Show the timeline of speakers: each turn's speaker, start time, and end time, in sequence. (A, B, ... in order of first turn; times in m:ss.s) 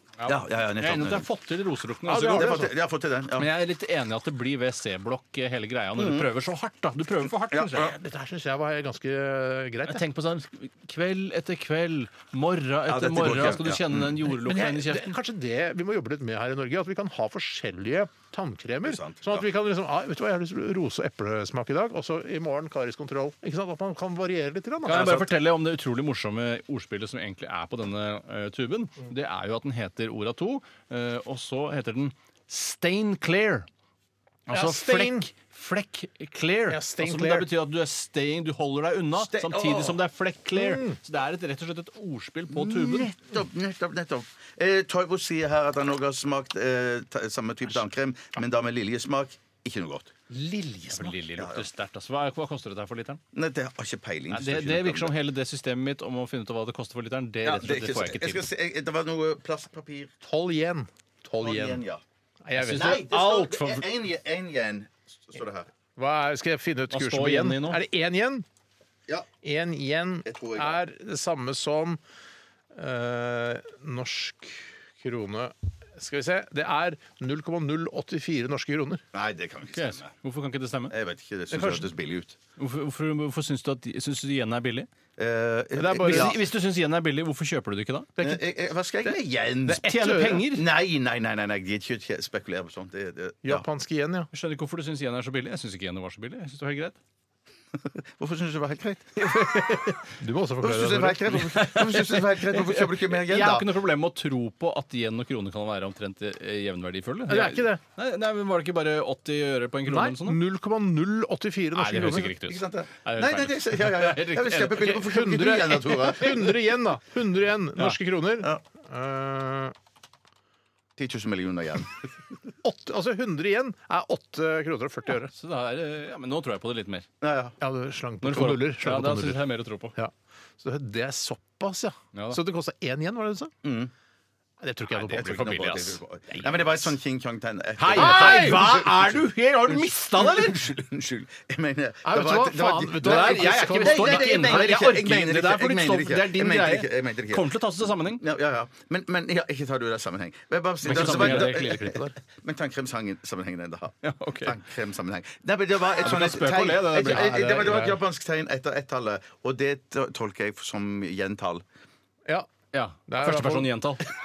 0:00.2-0:02.7 A
0:00.2-0:01.3 B
0:02.0-0:02.7 C
0:02.3-0:03.5 B
0:03.4-0:07.9 A
0:06.0-0:06.3 B
0:07.5-0:07.8 B
0:07.7-0:10.0 C
0:09.9-0:15.1 A
0:12.9-0:14.2 B
0:14.3-0:25.2 C
0:18.8-0:19.4 B
0:24.8-0:33.7 A
0:34.5-0:43.1 A
0:34.5-0:35.3 C
0:36.7-0:37.5 C
0:39.2-0:40.0 B
0:40.5-0:41.0 C
0:42.5-0:50.1 B
0:50.3-0:51.2 C
0:50.9-0:53.2 A
0:51.4-0:51.6 B
0:53.3-0:55.1 B
0:54.3-0:58.4 A
0:57.4-1:00.2 B
1:00.2-1:01.8 C
1:01.4-1:02.0 B
1:02.4-1:03.1 C
1:02.6-1:03.8 A
1:02.7-1:05.7 B
1:06.0-1:08.4 C
1:06.9-1:07.8 A
1:09.4-1:12.0 C
1:10.2-1:10.8 B
1:12.7-1:19.0 C
1:19.1-1:20.1 B
1:19.7-1:20.9 A
1:20.9-1:22.4 B
1:21.6-1:21.8 C
1:22.6-1:24.9 A
1:25.2-1:26.4 B
1:25.8-1:26.3 C
1:26.0-1:28.1 A
1:28.2-1:33.6 B
1:29.0-1:30.4 C
1:29.8-1:30.6 A
1:33.4-1:34.3 C
1:34.3-1:37.0 A
1:37.8-1:39.4 B
1:39.2-1:40.1 A
1:40.2-1:41.4 C
1:40.6-1:43.7 B
1:41.3-1:50.4 A
1:47.3-1:47.8 C
1:49.9-1:52.3 C
1:51.8-1:54.9 A
1:52.0-1:56.6 B
1:54.7-1:59.7 C
2:01.0-2:02.0 B
2:02.6-2:05.3 C
2:05.3-2:07.0 A
2:07.2-2:07.6 B
2:07.6-2:13.5 C
2:08.2-2:10.0 A
2:12.1-2:12.4 A
2:13.6-2:13.9 B
2:14.6-2:15.5 C
2:14.9-2:16.0 A
2:15.1-2:27.6 B
2:17.8-2:20.6 A
2:17.9-2:18.9 C
2:22.0-2:24.8 C
2:23.0-2:28.2 A
2:28.1-2:41.6 B
2:30.8-2:32.1 A
2:30.9-2:31.8 C
2:34.0-2:34.6 A
2:36.0-2:37.8 A
2:37.0-2:38.0 C
2:42.7-2:44.1 A
2:43.1-2:43.7 C